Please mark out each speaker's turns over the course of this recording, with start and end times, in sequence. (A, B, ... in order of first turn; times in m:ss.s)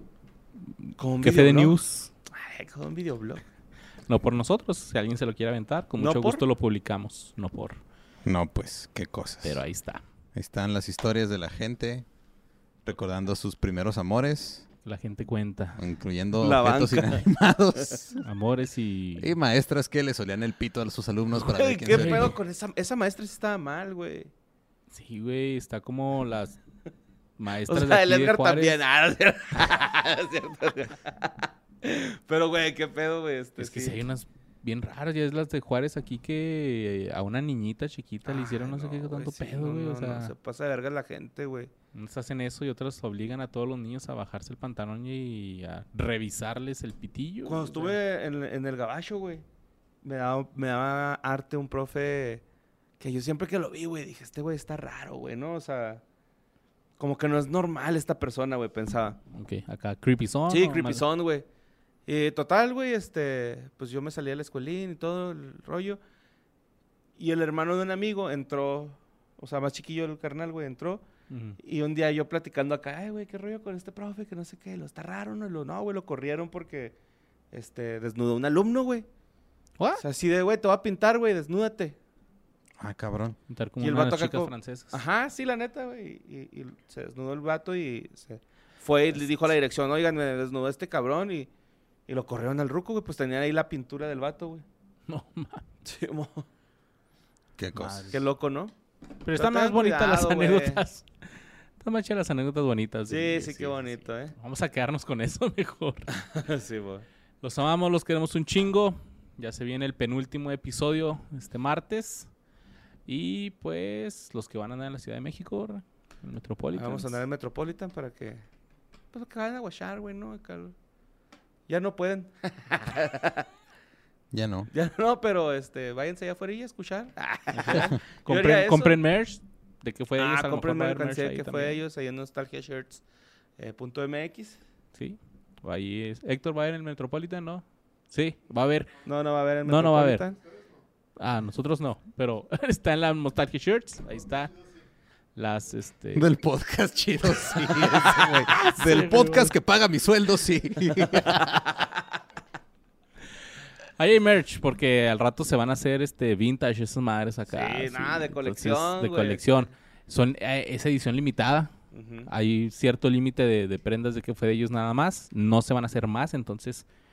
0:00.8-0:02.1 A
0:01.0-0:01.8 B
0:02.3-0:03.4 B
0:04.1-0:07.8 A
0:06.0-0:06.4 B
0:08.2-0:09.6 C
0:09.4-0:10.0 A
0:10.4-0:12.0 C
0:12.8-0:14.6 C
0:14.8-0:15.8 A
0:15.8-0:18.2 C
0:16.4-0:17.3 B
0:18.2-0:19.3 A
0:19.2-0:22.3 C
0:21.3-0:24.3 B
0:21.9-0:22.3 A
0:24.9-0:26.6 A
0:27.4-0:28.8 A
0:27.7-0:34.0 B
0:33.6-0:40.3 A
0:38.2-0:41.7 B
0:41.9-0:48.0 A
0:47.4-0:49.4 B
0:50.0-0:52.4 B
0:53.0-0:56.0 B
0:57.0-0:59.2 B
0:59.3-1:01.0 A
1:00.5-1:01.4 B
1:02.0-1:06.0 B
1:07.2-1:11.0 B
1:11.3-1:11.6 A
1:11.6-1:16.9 B
1:17.5-1:19.0 B
1:20.0-1:22.0 B
1:22.8-1:23.4 C
1:23.5-1:25.0 A
1:23.8-1:31.5 B
1:32.1-1:34.6 B
1:35.1-1:35.6 A
1:35.8-1:36.4 B
1:37.6-1:38.1 C
1:37.8-1:38.2 A
1:38.1-1:38.7 B
1:39.2-1:41.0 A
1:39.3-1:40.8 B
1:41.8-1:46.1 A
1:43.1-1:44.3 B
1:46.1-1:47.0 B
1:47.4-1:52.3 A
1:53.0-1:57.2 A
1:56.7-1:58.4 B
1:59.1-2:00.7 B
2:01.7-2:03.4 B
2:04.3-2:04.7 C
2:04.7-2:09.0 B
2:07.5-2:11.8 A
2:10.2-2:13.0 B
2:13.6-2:14.6 B
2:15.0-2:18.9 A
2:19.0-2:20.4 B
2:19.6-2:20.2 A
2:21.2-2:24.5 A
2:25.4-2:26.3 A
2:26.2-2:31.6 C
2:27.4-2:29.5 A
2:34.0-2:41.7 A
2:37.5-2:39.7 B
2:41.9-2:42.3 B
2:42.3-2:46.8 A